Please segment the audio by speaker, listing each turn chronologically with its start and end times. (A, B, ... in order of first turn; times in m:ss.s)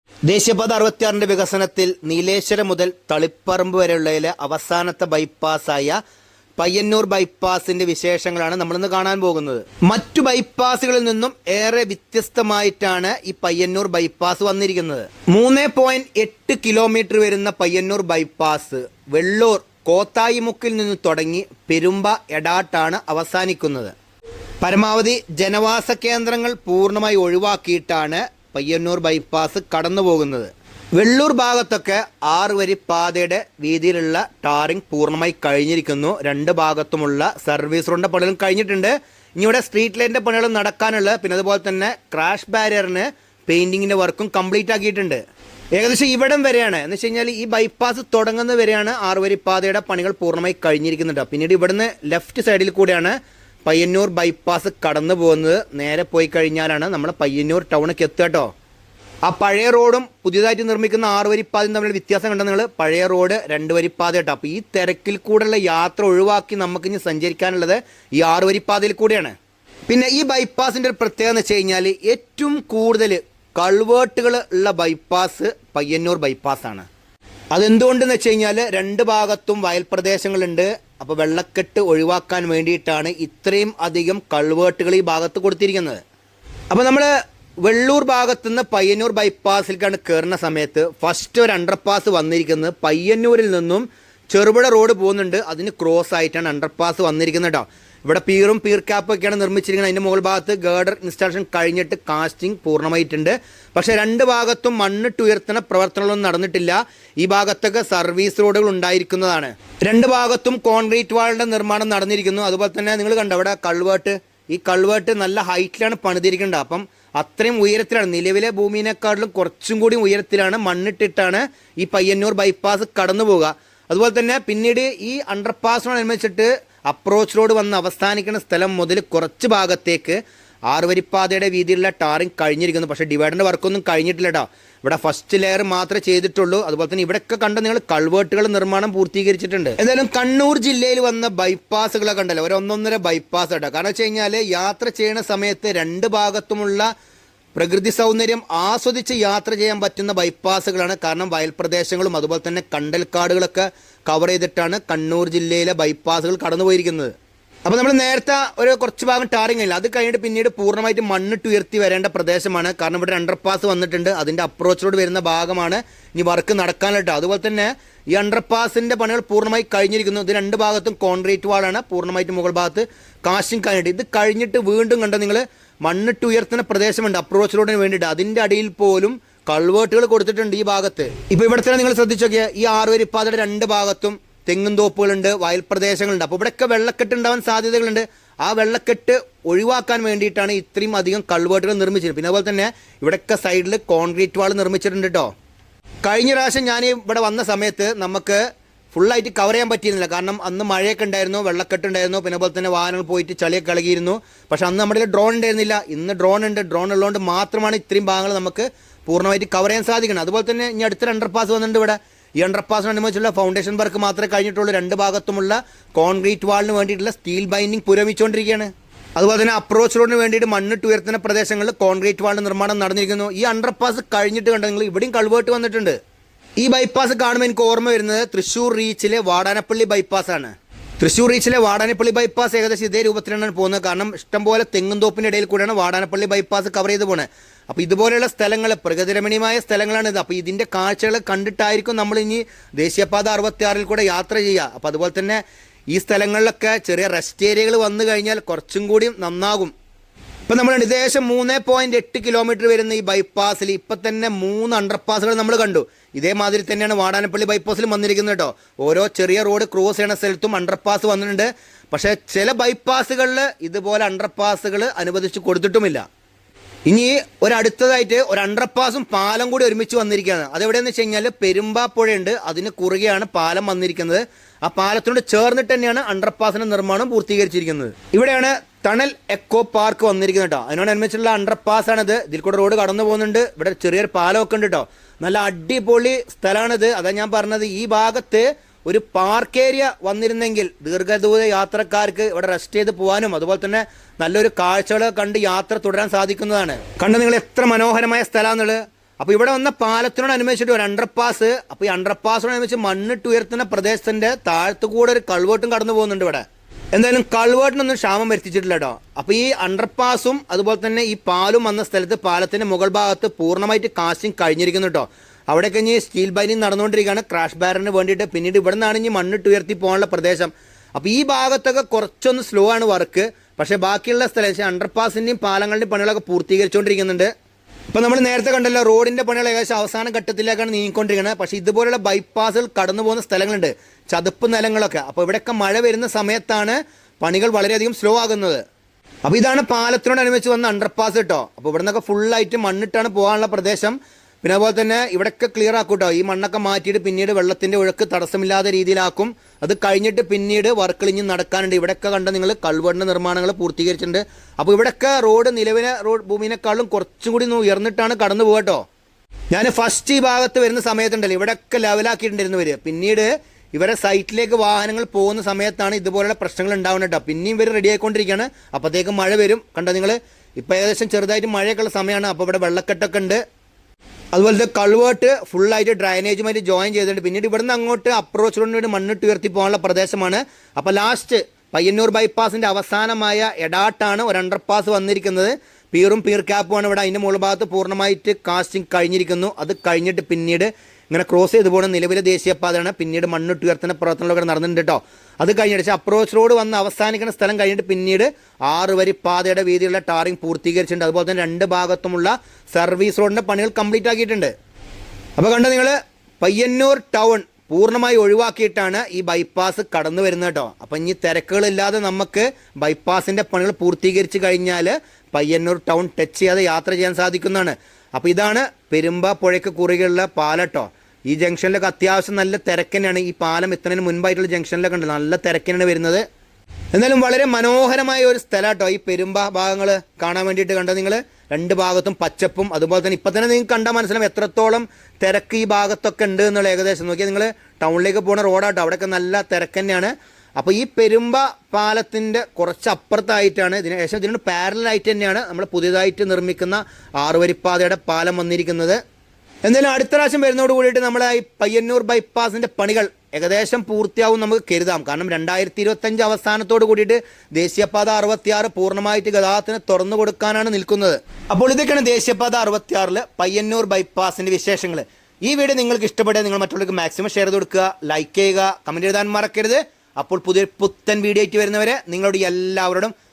0:00.3-0:06.0 A
0:06.6-0:23.9 A
0:24.6-0:45.2 A
0:45.7-0:58.5 A
0:59.2-1:09.3 A
1:09.9-1:16.9 A
1:17.5-1:26.0 A
1:26.7-2:10.2 A
2:10.7-2:26.9 A
2:27.5-2:37.1 A
2:37.6-3:15.3 A
3:16.0-3:18.4 A
3:18.9-3:46.0 A
3:46.6-4:05.4 A
4:05.9-4:09.7 A
4:10.5-4:26.0 A
4:26.9-5:27.3 A
5:27.9-5:38.6 A
5:39.2-5:58.8 A
5:59.5-6:13.4 A
6:14.3-6:44.5 A
6:45.4-7:06.2 A
7:06.9-7:29.0 A
7:29.6-7:53.1 A